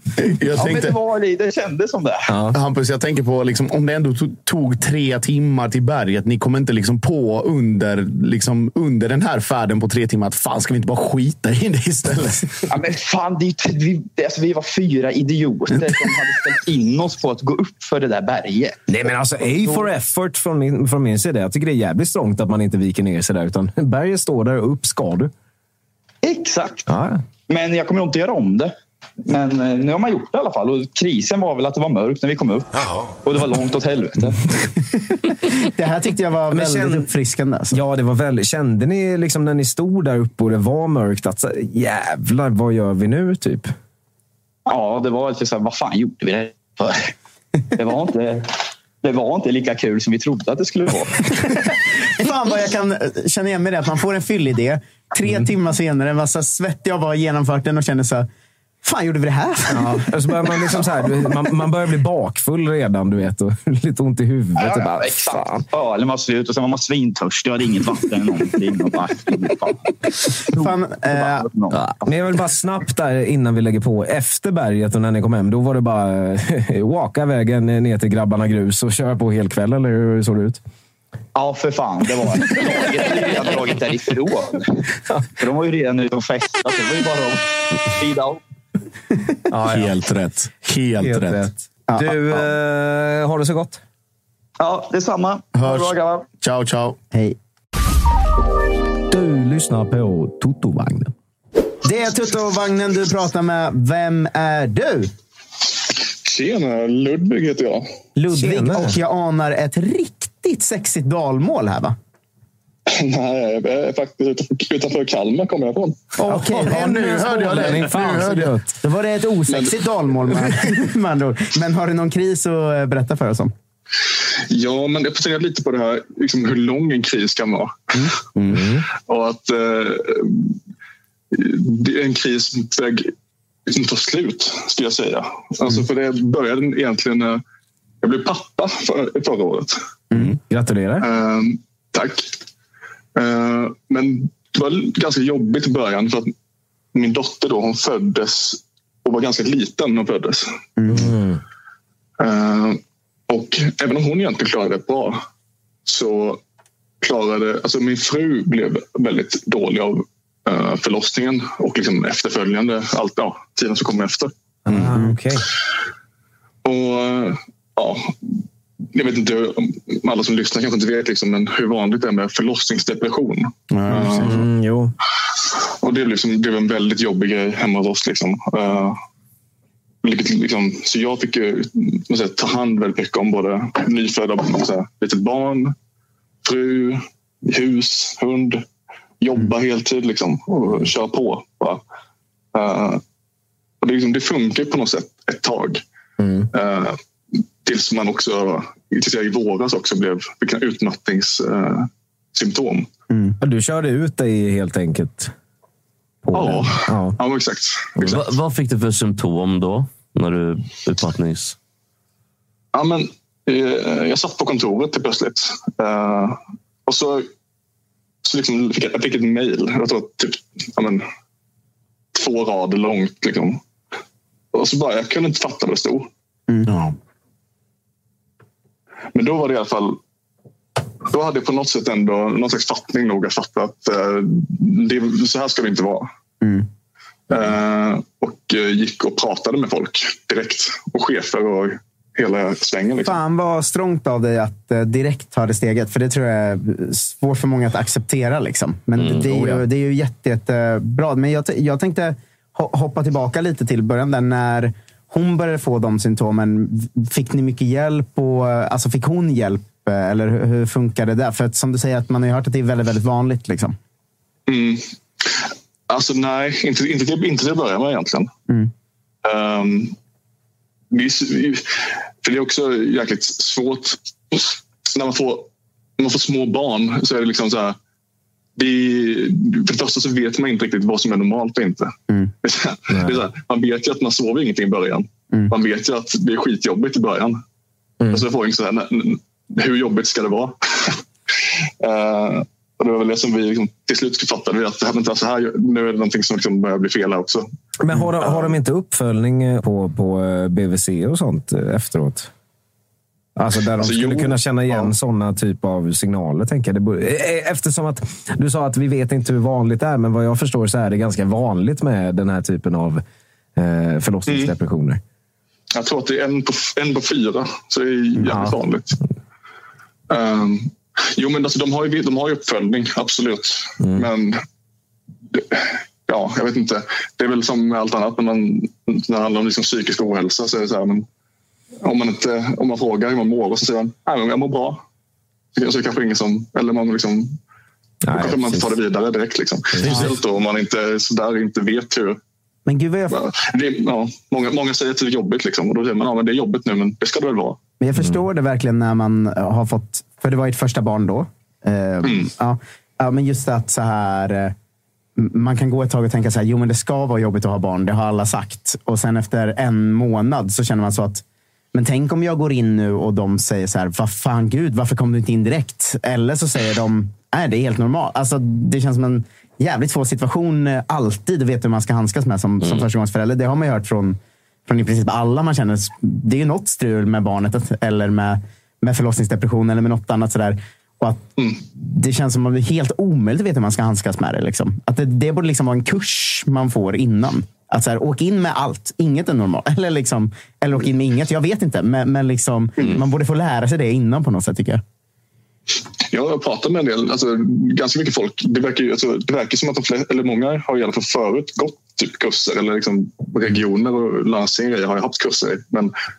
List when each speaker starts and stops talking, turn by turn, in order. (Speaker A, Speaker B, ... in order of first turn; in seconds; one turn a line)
Speaker A: 0.2-0.9
Speaker B: 0.5-2.4
Speaker C: 2.3-2.5
Speaker A: 2.5-12.6
Speaker B: 12.7-18.8
Speaker C: 18.9-25.3
Speaker B: 26.2-26.9
Speaker C: 26.9-27.2
Speaker B: 27.5-28.7
Speaker B: 29.2-34.4
Speaker D: 35.6-37.8
Speaker C: 36.5-37.1
Speaker C: 37.7-43.7
Speaker B: 44.7-47.1
Speaker B: 47.8-51.2
Speaker D: 52.2-58.3
Speaker D: 58.8-60.8
Speaker C: 59.7-65.7
Speaker B: 64.6-71.8
Speaker D: 70.6-71.5
Speaker C: 72.0-80.6
Speaker B: 81.3-84.8
Speaker B: 85.4-88.4
Speaker C: 89.5-89.9
Speaker A: 89.7-91.5
Speaker C: 91.0-93.8
Speaker D: 91.9-92.5
Speaker B: 94.6-96.3
Speaker A: 95.5-97.0
Speaker D: 97.1-97.4
Speaker C: 99.1-101.1
Speaker D: 101.8-105.1
Speaker E: 106.2-107.8
Speaker D: 108.2-111.9
Speaker C: 108.3-109.0
Speaker E: 112.9-116.0
Speaker D: 116.2-118.0
Speaker A: 116.3-118.5
Speaker C: 116.3-118.7
Speaker D: 118.8-123.5
Speaker E: 119.5-119.7
Speaker E: 124.5-128.1
Speaker A: 128.4-128.7
Speaker C: 128.5-128.8
Speaker E: 128.9-130.6
Speaker E: 131.3-133.1
Speaker E: 133.7-137.4
Speaker E: 138.0-139.8
Speaker C: 140.5-141.0
Speaker E: 141.0-142.3
Speaker E: 143.1-146.3
Speaker E: 146.9-150.5
Speaker D: 150.8-151.1
Speaker C: 150.9-151.4
Speaker E: 152.2-155.2
Speaker E: 155.8-156.4
Speaker E: 157.0-164.3
Speaker C: 164.6-165.5
Speaker E: 166.6-168.4
Speaker E: 168.9-174.4
Speaker A: 173.7-174.3
Speaker C: 173.9-174.9
Speaker E: 175.8-179.0
Speaker E: 180.0-185.7
Speaker E: 186.4-188.6
Speaker E: 189.2-191.8
Speaker E: 192.5-193.0
Speaker E: 193.8-195.8
Speaker C: 196.2-196.5
Speaker E: 196.5-197.0
Speaker E: 197.6-202.9
Speaker D: 203.1-203.4
Speaker C: 203.4-205.3
Speaker C: 206.2-207.2
Speaker E: 206.3-208.0
Speaker F: 208.0-211.6
Speaker E: 212.7-217.3
Speaker E: 218.2-221.0
Speaker E: 222.1-223.6
Speaker E: 224.5-226.1
Speaker A: 226.7-226.9
Speaker E: 229.1-230.0
Speaker E: 231.1-236.1
Speaker E: 237.3-243.2
Speaker D: 243.0-263.7
Speaker A: 249.3-249.6
Speaker E: 264.5-268.3
Speaker E: 269.2-269.9
Speaker E: 270.9-277.8
Speaker E: 278.6-287.4
Speaker C: 282.9-283.2
Speaker C: 288.0-288.3
Speaker E: 288.1-291.0
Speaker E: 291.8-297.4
Speaker C: 297.8-302.3
Speaker C: 303.4-313.0
Speaker E: 303.8-304.9
Speaker C: 313.6-315.0
Speaker E: 314.3-314.5
Speaker E: 315.7-319.0
Speaker C: 318.2-318.6
Speaker E: 320.1-324.4
Speaker C: 323.8-324.1
Speaker E: 325.3-331.1
Speaker E: 331.8-334.8
Speaker E: 335.5-337.4
Speaker C: 338.0-338.8
Speaker E: 338.1-342.2
Speaker C: 339.7-340.1
Speaker A: 339.8-340.1
Speaker D: 342.6-343.2
Speaker E: 343.1-347.6
Speaker D: 347.8-354.5
Speaker E: 352.0-352.3
Speaker D: 355.2-361.2
Speaker D: 361.7-394.8
Speaker E: 396.1-405.9